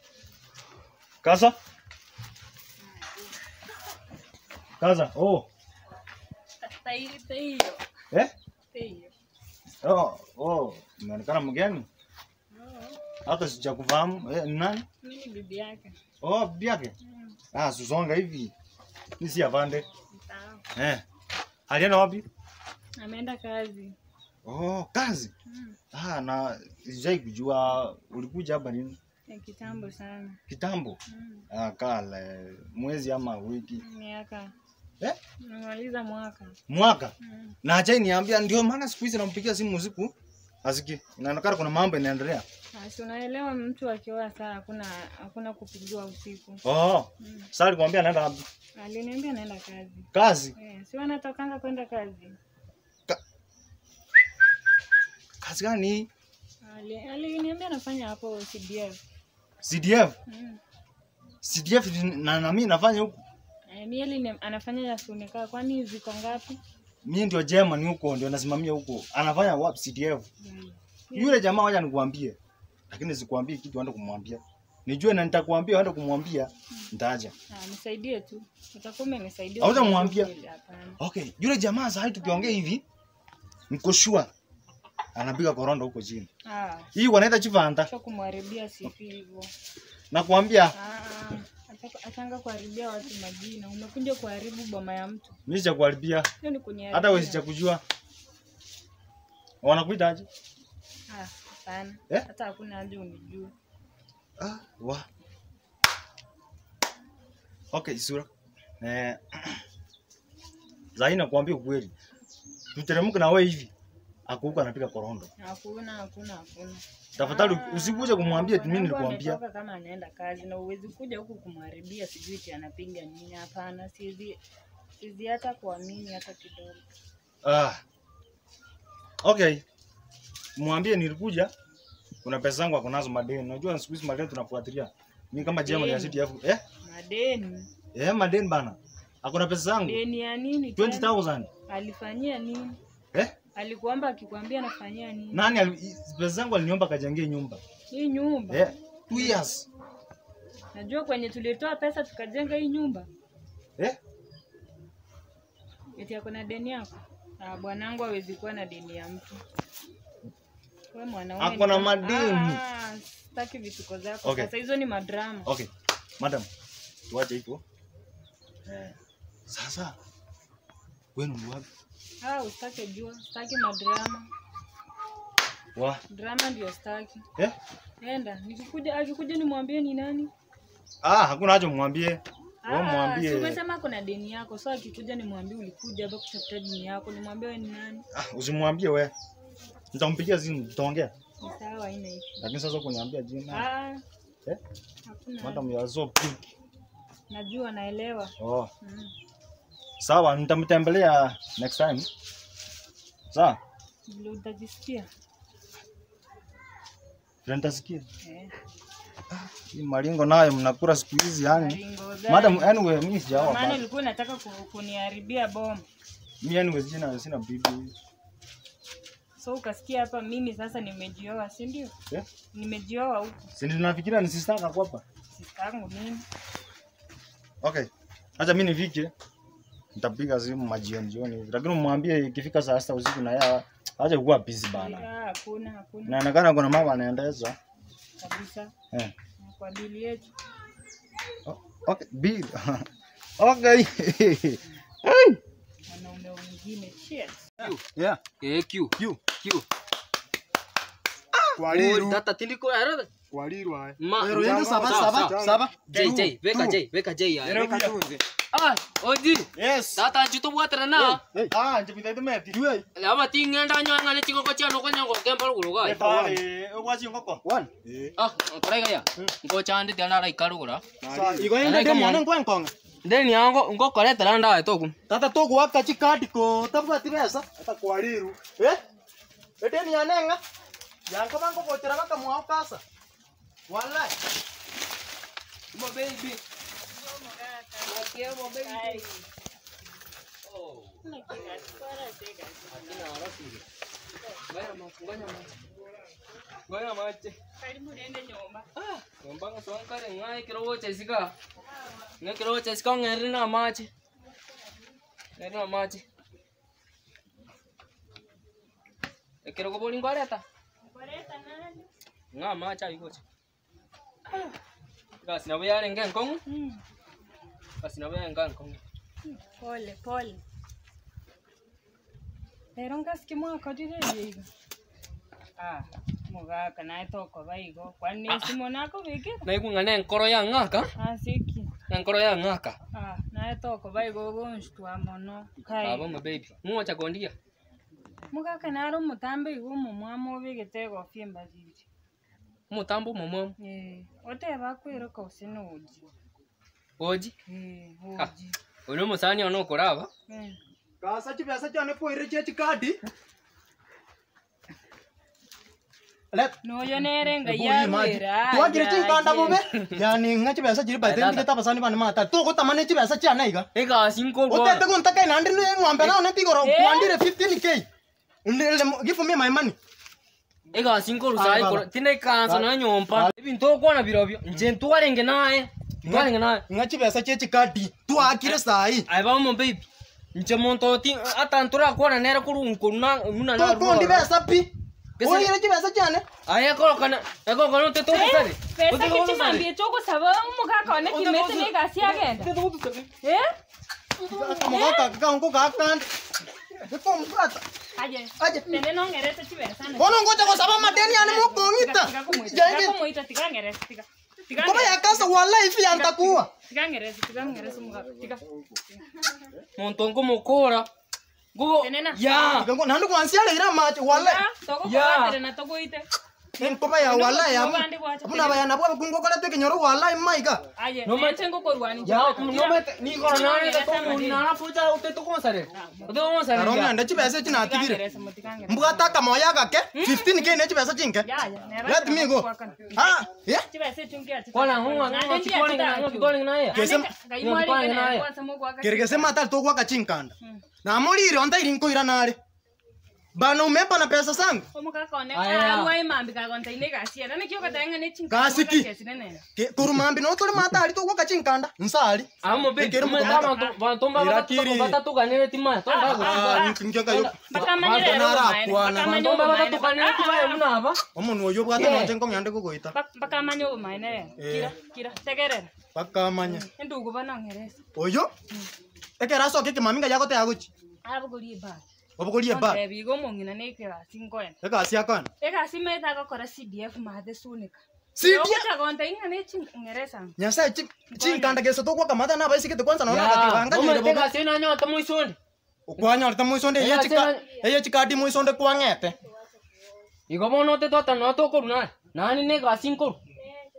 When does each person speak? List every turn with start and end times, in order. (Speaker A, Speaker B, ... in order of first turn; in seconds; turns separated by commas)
Speaker A: 1.2-1.6, Speaker A: 4.8-5.5, Speaker B: 6.6-7.8, Speaker B: 8.7-9.1, Speaker A: 9.8-11.9, Speaker B: 12.5-13.0, Speaker A: 13.3-14.9, Speaker B: 15.0-15.9, Speaker A: 16.2-16.9, Speaker B: 17.0-17.4, Speaker A: 17.5-18.5, Speaker A: 19.2-19.9, Speaker B: 20.1-20.6, Speaker A: 20.8-21.0, Speaker A: 21.7-22.2, Speaker B: 23.0-23.9, Speaker A: 24.4-25.3, Speaker B: 25.5-25.8, Speaker A: 25.9-29.0, Speaker B: 29.3-30.4, Speaker A: 30.5-31.0, Speaker B: 31.1-31.5, Speaker A: 31.5-33.8, Speaker B: 33.8-34.5, Speaker B: 35.4-36.6, Speaker A: 36.7-40.1, Speaker B: 37.2-37.5, Speaker A: 40.6-42.4, Speaker B: 42.7-46.6, Speaker A: 46.6-48.5, Speaker B: 47.2-47.5, Speaker B: 48.8-52.4, Speaker A: 50.1-50.5, Speaker A: 55.4-56.1, Speaker B: 56.6-59.0, Speaker A: 59.6-60.2, Speaker B: 60.3-60.6, Speaker A: 61.4-63.2, Speaker B: 63.7-66.6, Speaker A: 67.0-70.3, Speaker B: 70.4-71.4, Speaker A: 71.1-72.4, Speaker A: 72.9-77.3, Speaker B: 77.5-81.0, Speaker A: 79.6-80.3, Speaker A: 81.0-82.8, Speaker A: 83.7-84.3, Speaker A: 85.2-86.3, Speaker B: 86.5-86.9, Speaker A: 86.9-87.9, Speaker B: 87.9-89.5, Speaker A: 90.1-90.7, Speaker B: 90.8-95.4, Speaker A: 95.5-96.3, Speaker B: 96.4-97.4, Speaker A: 96.9-97.8, Speaker A: 99.6-100.3, Speaker B: 101.1-103.5, Speaker A: 104.4-105.1, Speaker A: 107.7-108.3, Speaker A: 108.8-109.6, Speaker A: 111.0-111.9, Speaker A: 112.7-113.7, Speaker A: 114.3-115.3, Speaker B: 115.4-124.4, Speaker A: 117.2-119.4, Speaker B: 125.0-126.8, Speaker A: 127.4-127.8, Speaker A: 129.2-129.6, Speaker A: 130.6-131.5, Speaker A: 132.2-136.6, Speaker B: 135.6-136.2, Speaker B: 136.8-137.7, Speaker A: 137.9-140.0, Speaker B: 139.8-142.8, Speaker A: 140.8-141.5, Speaker B: 143.6-145.4, Speaker A: 145.3-147.6, Speaker B: 147.9-149.4, Speaker A: 148.5-149.7, Speaker B: 150.7-153.1, Speaker B: 156.0-159.4, Speaker B: 160.9-165.5, Speaker A: 161.4-162.6, Speaker A: 164.2-164.5, Speaker A: 165.5-166.5, Speaker A: 167.1-167.6, Speaker A: 168.7-169.0, Speaker A: 169.5-170.0, Speaker A: 171.2-171.7, Speaker B: 172.2-174.3, Speaker A: 175.8-176.0, Speaker B: 176.1-177.2, Speaker B: 178.0-180.3, Speaker A: 181.0-183.6, Speaker B: 182.6-188.0, Speaker A: 188.1-189.1, Speaker A: 189.9-191.1, Speaker B: 191.4-192.3, Speaker A: 192.4-193.7, Speaker B: 193.5-194.0, Speaker B: 195.1-195.7, Speaker A: 195.4-196.4, Speaker B: 197.3-199.1, Speaker A: 198.4-198.7, Speaker A: 200.0-202.1, Speaker A: 203.3-203.6, Speaker B: 204.1-205.1, Speaker A: 207.4-208.1, Speaker B: 208.2-208.5, Speaker A: 209.3-213.8, Speaker B: 211.5-215.8, Speaker A: 216.4-217.9, Speaker B: 219.4-221.9, Speaker B: 222.5-223.4, Speaker A: 223.6-225.0, Speaker B: 225.3-226.2, Speaker A: 227.6-229.1, Speaker A: 230.0-235.1, Speaker B: 234.8-236.2, Speaker A: 236.1-237.6, Speaker B: 238.2-238.7, Speaker B: 239.4-240.3, Speaker A: 241.4-242.9, Speaker A: 243.4-245.4, Speaker B: 245.9-247.4, Speaker C: 247.6-248.2, Speaker D: 248.4-249.6, Speaker C: 251.4-252.2, Speaker D: 251.6-253.1, Speaker C: 253.3-256.8, Speaker D: 254.0-257.7, Speaker A: 255.4-256.3, Speaker C: 257.4-258.2, Speaker A: 257.4-258.0, Speaker D: 258.5-261.2, Speaker A: 259.6-260.1, Speaker C: 261.0-261.5, Speaker A: 261.5-262.6, Speaker C: 262.5-262.9, Speaker D: 262.9-266.1, Speaker A: 265.8-268.1, Speaker C: 265.9-266.4, Speaker C: 267.4-267.7, Speaker D: 268.2-270.8, Speaker A: 271.0-271.5, Speaker C: 271.1-272.7, Speaker D: 271.6-272.2, Speaker D: 273.0-274.9, Speaker C: 275.1-278.8, Speaker C: 279.6-280.4, Speaker C: 281.1-282.8, Speaker C: 283.7-284.1, Speaker D: 285.7-286.4, Speaker B: 286.9-289.2, Speaker D: 287.9-289.1, Speaker D: 290.4-291.0, Speaker B: 291.0-293.1, Speaker D: 292.7-293.6, Speaker D: 294.5-295.5, Speaker D: 296.7-297.4, Speaker B: 297.6-298.7, Speaker D: 298.8-301.3, Speaker D: 302.2-303.9, Speaker D: 305.4-306.0, Speaker D: 309.4-310.4, Speaker B: 310.8-311.9, Speaker D: 312.3-313.2, Speaker D: 315.2-316.4, Speaker B: 316.5-316.8, Speaker D: 317.8-318.8, Speaker B: 319.2-320.4, Speaker B: 322.8-324.5, Speaker B: 325.6-329.4, Speaker D: 329.4-330.9, Speaker B: 331.0-331.8, Speaker D: 331.9-332.8, Speaker B: 332.9-336.2, Speaker D: 335.8-337.3, Speaker B: 338.3-341.9, Speaker D: 342.7-343.6, Speaker B: 343.6-346.0, Speaker D: 347.0-347.3, Speaker B: 347.5-348.6, Speaker D: 348.9-350.1, Speaker B: 350.3-350.6, Speaker C: 351.0-353.0, Speaker B: 356.6-359.6, Speaker C: 357.4-363.7, Speaker D: 361.0-361.5, Speaker D: 363.7-364.9, Speaker C: 364.5-367.9, Speaker B: 366.6-367.2, Speaker C: 368.4-369.8, Speaker D: 370.7-376.6, Speaker C: 371.4-371.9, Speaker C: 372.5-373.3, Speaker C: 376.0-379.1, Speaker D: 378.2-384.3, Speaker C: 383.5-384.7, Speaker D: 385.2-385.5, Speaker C: 385.2-386.3, Speaker D: 386.5-389.7, Speaker B: 388.1-392.5, Speaker D: 390.9-393.1, Speaker B: 393.2-393.5, Speaker C: 394.2-396.1, Speaker B: 394.7-395.1, Speaker C: 396.8-397.6, Speaker B: 398.0-405.3, Speaker C: 398.4-398.8, Speaker C: 400.0-403.0, Speaker C: 404.5-406.5, Speaker B: 405.9-408.4, Speaker B: 409.1-409.4, Speaker D: 409.8-410.9, Speaker D: 411.6-412.7, Speaker B: 411.8-412.2, Speaker C: 412.4-414.4, Speaker B: 414.1-416.1, Speaker D: 414.8-415.4, Speaker B: 416.6-418.6, Speaker C: 416.6-420.6, Speaker B: 420.8-424.4, Speaker D: 421.1-421.4, Speaker D: 422.1-427.0, Speaker B: 425.7-426.1, Speaker C: 426.5-428.0, Speaker B: 427.2-429.2, Speaker C: 428.7-431.3, Speaker B: 429.9-430.5, Speaker B: 431.2-433.0, Speaker C: 431.9-433.7, Speaker B: 433.7-439.3, Speaker D: 434.5-436.8, Speaker C: 436.7-437.1, Speaker D: 437.4-438.3, Speaker C: 438.8-442.4, Speaker C: 443.4-444.7, Speaker B: 444.7-449.4, Speaker D: 445.3-445.9, Speaker C: 448.3-448.9, Speaker C: 449.6-453.6, Speaker D: 452.4-458.2, Speaker B: 452.5-453.8, Speaker C: 454.1-455.0, Speaker B: 455.9-456.8, Speaker C: 456.1-459.1, Speaker B: 457.5-460.7, Speaker D: 458.9-461.0, Speaker C: 461.1-462.9, Speaker D: 461.8-462.1, Speaker B: 462.9-465.7, Speaker C: 464.4-464.7, Speaker C: 465.9-466.7, Speaker B: 466.4-467.8, Speaker C: 468.0-468.3, Speaker C: 469.2-470.7, Speaker B: 471.1-471.8, Speaker C: 472.2-472.8, Speaker B: 472.5-474.6, Speaker C: 474.6-475.3, Speaker B: 475.4-480.4, Speaker C: 478.2-478.7, Speaker C: 480.4-484.3, Speaker B: 481.1-481.6, Speaker D: 483.1-485.4, Speaker C: 485.9-489.2, Speaker D: 486.8-487.5, Speaker D: 490.3-493.2